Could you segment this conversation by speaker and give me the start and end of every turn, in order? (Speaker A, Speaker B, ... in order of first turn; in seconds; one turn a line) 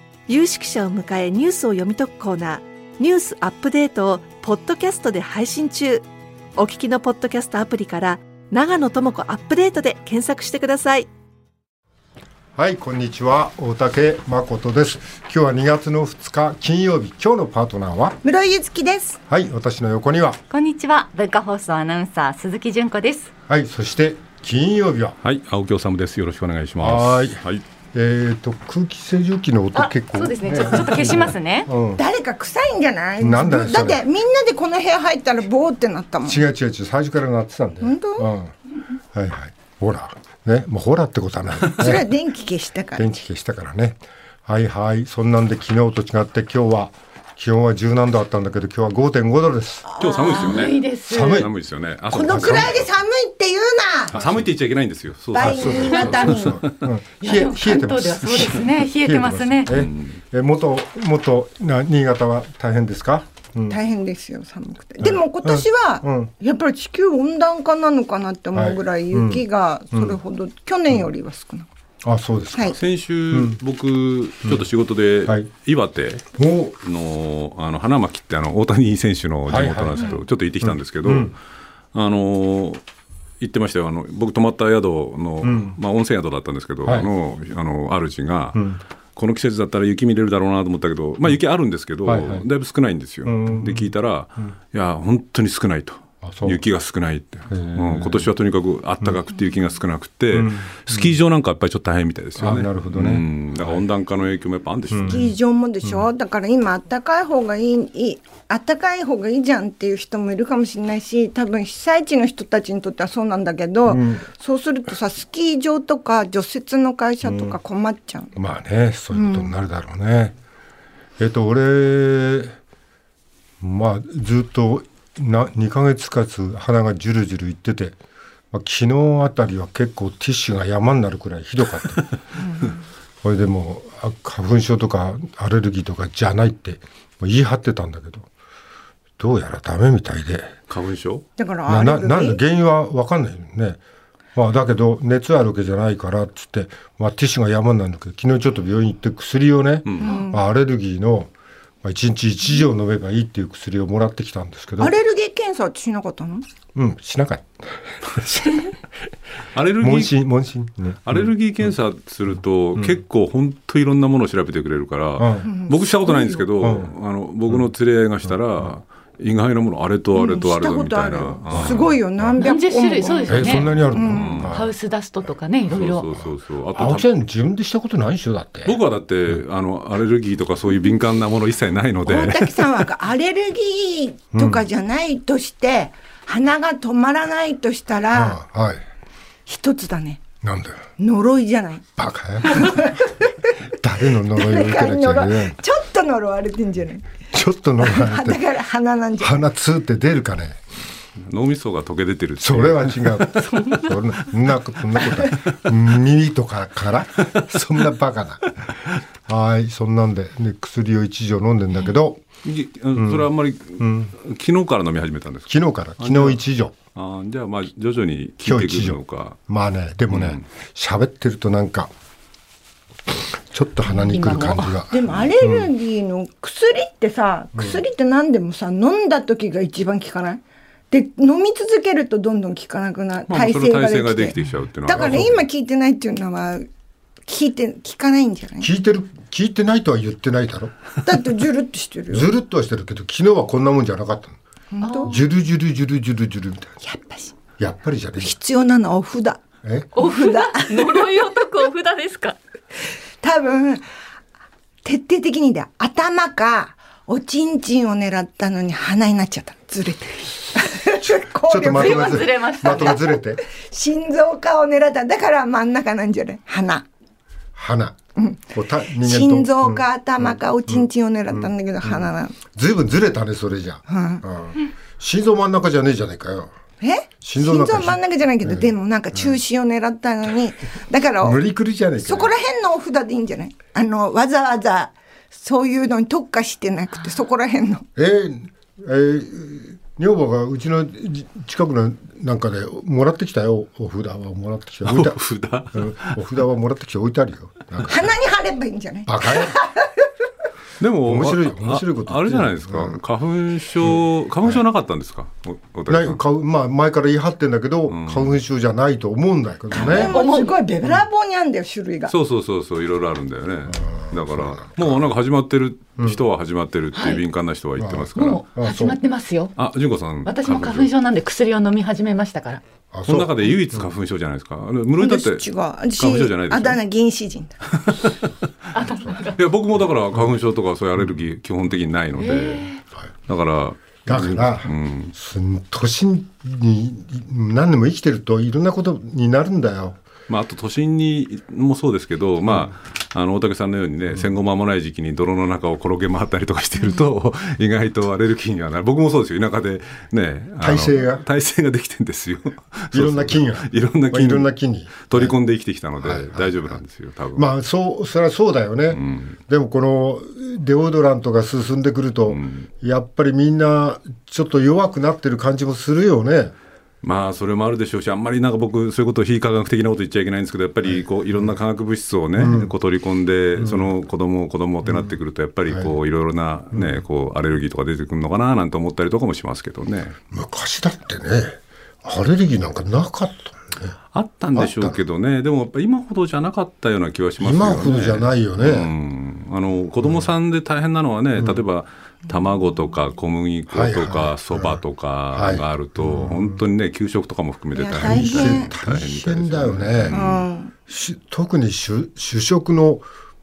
Speaker A: 0.3-6.1
Speaker A: 6.6-11.1
Speaker B: 12.6-18.2
Speaker C: 18.2-19.2
Speaker B: 19.3-20.4
Speaker D: 20.5-23.3
Speaker B: 23.5-25.2
Speaker E: 25.2-27.6
Speaker B: 26.8-27.4
Speaker B: 27.9-32.0
Speaker D: 29.8-31.7
Speaker C: 32.0-36.5
Speaker B: 33.2-34.0
Speaker B: 36.2-38.5
Speaker C: 37.8-38.3
Speaker B: 39.1-42.1
Speaker C: 41.7-43.1
Speaker B: 43.0-49.9
Speaker E: 50.0-52.9
Speaker C: 50.0-50.7
Speaker D: 50.0-51.5
Speaker B: 51.1-51.5
Speaker C: 52.1-54.1
Speaker B: 52.1-52.8
Speaker B: 54.1-54.4
Speaker E: 54.1-56.6
Speaker C: 55.3-56.7
Speaker B: 55.3-63.8
Speaker D: 57.2-59.8
Speaker E: 59.7-60.2
Speaker C: 63.7-71.7
Speaker B: 65.0-66.3
Speaker B: 68.5-70.2
Speaker B: 72.0-72.8
Speaker E: 72.8-76.2
Speaker B: 73.3-73.6
Speaker B: 76.3-76.8
Speaker E: 76.8-81.4
Speaker B: 79.5-81.3
Speaker E: 81.9-82.8
Speaker E: 83.4-105.3
Speaker B: 85.4-85.8
Speaker B: 88.5-88.8
Speaker B: 92.1-92.4
Speaker B: 93.2-93.9
Speaker B: 96.2-96.6
Speaker B: 97.5-98.3
Speaker B: 100.3-101.1
Speaker B: 102.4-103.8
Speaker B: 104.9-105.3
Speaker C: 105.1-118.3
Speaker B: 113.9-114.3
Speaker B: 117.2-117.6
Speaker B: 118.3-120.3
Speaker C: 119.1-119.5
Speaker B: 121.2-122.6
Speaker B: 123.6-128.0
Speaker B: 128.5-132.1
Speaker C: 132.4-132.8
Speaker B: 133.2-138.3
Speaker B: 139.2-140.5
Speaker E: 140.7-141.3
Speaker C: 141.4-142.4
Speaker B: 141.7-143.8
Speaker B: 144.3-151.3
Speaker E: 149.9-150.2
Speaker C: 150.0-150.4
Speaker B: 151.8-154.9
Speaker C: 154.8-156.5
Speaker B: 156.8-158.8
Speaker E: 159.6-160.2
Speaker B: 159.8-161.2
Speaker E: 161.1-172.0
Speaker B: 165.2-165.5
Speaker C: 165.4-166.5
Speaker B: 166.6-166.9
Speaker C: 170.1-174.4
Speaker B: 171.5-172.3
Speaker D: 172.4-173.7
Speaker B: 173.3-174.8
Speaker E: 173.3-174.6
Speaker D: 174.5-176.1
Speaker E: 175.7-177.1
Speaker B: 176.7-178.8
Speaker E: 178.7-182.9
Speaker C: 182.1-188.4
Speaker B: 184.3-184.7
Speaker B: 188.1-188.8
Speaker C: 189.5-190.3
Speaker B: 190.4-190.9
Speaker C: 191.0-191.8
Speaker B: 192.0-193.0
Speaker C: 192.4-193.3
Speaker B: 193.7-195.6
Speaker C: 194.3-197.1
Speaker B: 197.3-198.4
Speaker C: 197.8-199.4
Speaker B: 199.2-200.6
Speaker E: 201.2-203.7
Speaker B: 202.4-208.5
Speaker E: 207.3-207.8
Speaker E: 208.6-208.9
Speaker B: 209.3-212.2
Speaker E: 212.4-216.4
Speaker B: 213.0-213.3
Speaker B: 213.8-214.1
Speaker B: 215.5-216.8
Speaker E: 216.9-219.4
Speaker B: 218.4-221.9
Speaker E: 220.1-220.4
Speaker B: 223.5-225.7
Speaker D: 224.0-224.8
Speaker C: 224.9-234.3
Speaker B: 227.6-227.8
Speaker E: 233.3-235.4
Speaker C: 234.9-236.7
Speaker B: 235.0-235.3
Speaker C: 237.3-238.7
Speaker B: 238.6-240.7
Speaker C: 241.0-242.3
Speaker B: 242.1-244.4
Speaker C: 244.7-245.2
Speaker D: 244.8-245.2
Speaker B: 245.0-246.8
Speaker C: 246.8-247.3
Speaker B: 247.6-248.4
Speaker C: 248.2-249.4
Speaker B: 249.6-250.0
Speaker D: 249.9-252.4
Speaker C: 250.0-251.3
Speaker C: 253.2-253.8
Speaker C: 254.8-266.9
Speaker B: 261.0-263.4
Speaker D: 261.7-263.0
Speaker B: 267.6-268.0
Speaker B: 268.5-276.5
Speaker C: 269.0-272.4
Speaker C: 273.9-274.2
Speaker C: 276.8-281.4
Speaker B: 277.2-279.4
Speaker B: 281.2-282.3
Speaker C: 282.0-287.9
Speaker B: 288.0-295.2
Speaker E: 294.9-296.2
Speaker B: 295.7-298.1
Speaker C: 297.9-299.9
Speaker B: 299.1-299.6
Speaker E: 300.8-306.2
Speaker B: 301.1-303.0
Speaker B: 303.8-304.6
Speaker B: 305.9-310.2
Speaker E: 307.9-308.4
Speaker C: 309.7-312.1
Speaker D: 310.0-310.6
Speaker E: 312.1-318.4
Speaker B: 313.7-315.0
Speaker D: 316.9-317.2
Speaker B: 317.8-319.0
Speaker D: 318.1-319.6
Speaker E: 319.6-320.9
Speaker D: 320.2-322.6
Speaker B: 322.9-323.9
Speaker E: 323.1-326.8
Speaker C: 325.0-327.7
Speaker E: 327.7-328.3
Speaker D: 328.7-329.4
Speaker E: 329.1-332.7
Speaker D: 332.2-332.8
Speaker E: 333.3-335.1
Speaker B: 334.1-340.0
Speaker E: 340.3-354.5
Speaker B: 350.6-351.2
Speaker B: 352.9-355.4
Speaker E: 355.1-357.5
Speaker B: 356.0-356.8
Speaker B: 357.4-366.6
Speaker E: 358.9-359.4
Speaker E: 362.3-362.7
Speaker E: 367.0-380.2
Speaker B: 372.4-372.7
Speaker B: 373.6-373.9
Speaker B: 374.9-375.1
Speaker B: 376.7-377.0
Speaker B: 380.3-384.0
Speaker E: 384.1-400.4
Speaker B: 384.6-385.0
Speaker B: 387.4-388.9
Speaker B: 393.7-394.8
Speaker B: 395.3-396.6
Speaker C: 397.8-398.7
Speaker B: 398.0-403.1
Speaker C: 400.1-400.7